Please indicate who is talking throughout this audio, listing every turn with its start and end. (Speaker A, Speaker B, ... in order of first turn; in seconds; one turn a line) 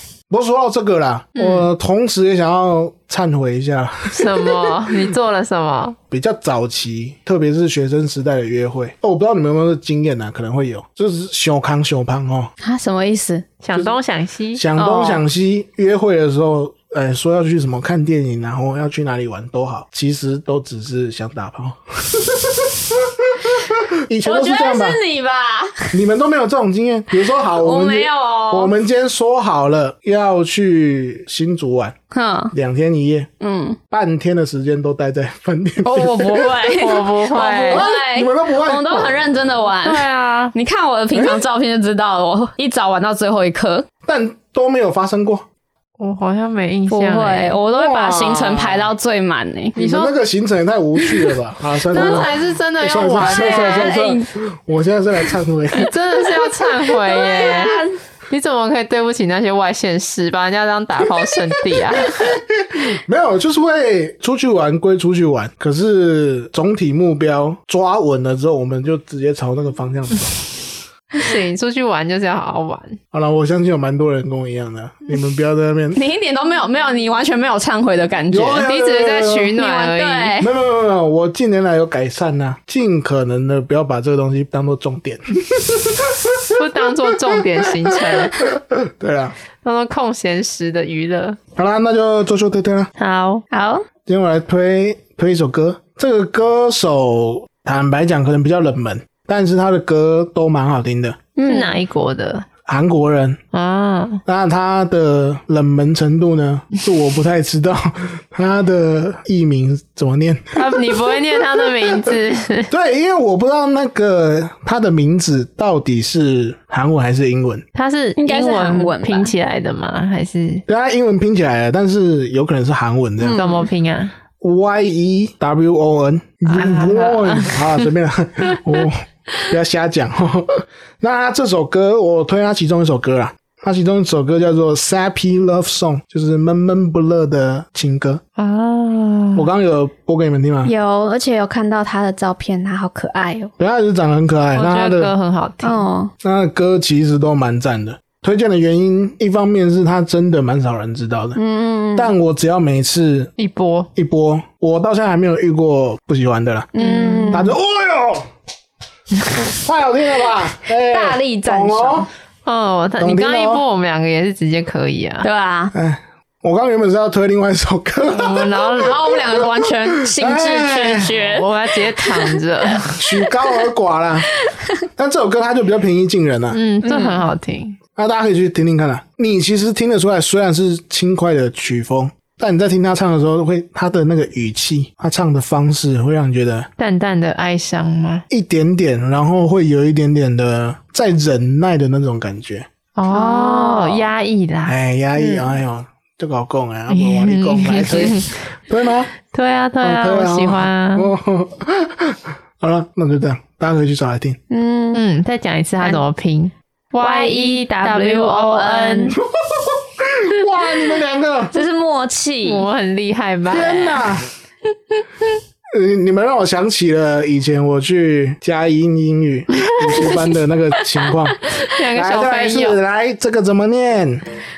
Speaker A: 0.3-5.1
Speaker B: 1.4-1.7
Speaker B: 4.1-6.0
Speaker A: 6.1-12.5
Speaker C: 12.6-13.5
Speaker B: 13.6-14.7
Speaker A: 14.6-25.0
Speaker C: 14.8-15.2
Speaker C: 24.2-26.0
Speaker A: 25.9-31.9
Speaker C: 27.4-28.7
Speaker C: 32.1-32.5
Speaker A: 32.5-33.3
Speaker C: 33.4-33.8
Speaker A: 33.9-36.7
Speaker C: 35.9-43.9
Speaker B: 36.7-37.9
Speaker A: 37.6-39.4
Speaker B: 39.8-40.5
Speaker A: 41.1-41.4
Speaker A: 44.0-45.5
Speaker B: 46.0-47.6
Speaker C: 46.9-49.8
Speaker A: 47.7-48.9
Speaker B: 49.8-50.1
Speaker A: 49.8-56.0
Speaker B: 51.9-53.9
Speaker C: 51.9-52.3
Speaker C: 53.2-54.3
Speaker B: 55.8-62.4
Speaker C: 56.9-57.9
Speaker A: 62.0-70.6
Speaker B: 71.1-73.0
Speaker A: 73.1-76.0
Speaker C: 76.0-78.7
Speaker A: 78.3-79.5
Speaker B: 78.6-80.4
Speaker C: 79.5-80.5
Speaker A: 80.4-86.6
Speaker B: 86.5-88.5
Speaker A: 87.2-89.3
Speaker B: 89.6-91.4
Speaker A: 91.6-92.9
Speaker B: 93.0-93.5
Speaker C: 93.5-93.8
Speaker A: 94.1-101.2
Speaker C: 101.4-101.8
Speaker B: 101.4-102.5
Speaker A: 102.7-103.4
Speaker B: 103.5-104.2
Speaker A: 104.3-111.0
Speaker B: 110.6-112.7
Speaker A: 111.8-112.1
Speaker A: 112.7-117.6
Speaker B: 117.8-120.7
Speaker C: 118.2-119.3
Speaker A: 120.7-123.4
Speaker B: 123.3-124.1
Speaker C: 123.4-123.7
Speaker A: 124.4-138.2
Speaker B: 126.5-127.8
Speaker B: 138.4-139.5
Speaker A: 139.3-140.7
Speaker C: 140.6-143.5
Speaker A: 143.6-145.1
Speaker B: 144.5-145.8
Speaker C: 145.6-146.1
Speaker A: 146.2-151.4
Speaker C: 151.4-152.1
Speaker A: 151.9-153.3
Speaker B: 153.4-153.9
Speaker A: 153.9-158.3
Speaker C: 156.8-157.6
Speaker A: 159.4-162.1
Speaker C: 160.9-162.1
Speaker B: 162.5-165.3
Speaker A: 163.0-163.6
Speaker C: 165.2-165.7
Speaker A: 165.7-171.2
Speaker B: 168.1-169.1
Speaker C: 168.8-172.4
Speaker B: 171.2-173.3
Speaker A: 172.9-174.3
Speaker A: 175.0-176.6
Speaker B: 176.5-177.8
Speaker C: 176.8-177.2
Speaker A: 178.0-186.7
Speaker B: 186.8-188.2
Speaker A: 188.3-192.7
Speaker B: 193.0-195.5
Speaker C: 193.1-194.1
Speaker A: 194.7-199.1
Speaker B: 196.9-198.4
Speaker B: 199.3-201.1
Speaker A: 199.8-204.4
Speaker C: 204.5-205.0
Speaker B: 204.9-209.2
Speaker C: 207.0-209.2
Speaker A: 209.2-211.6
Speaker C: 211.5-212.7
Speaker B: 212.4-214.0
Speaker A: 213.5-214.3
Speaker A: 215.7-221.4
Speaker C: 219.9-220.2
Speaker B: 221.6-222.8
Speaker A: 221.9-224.2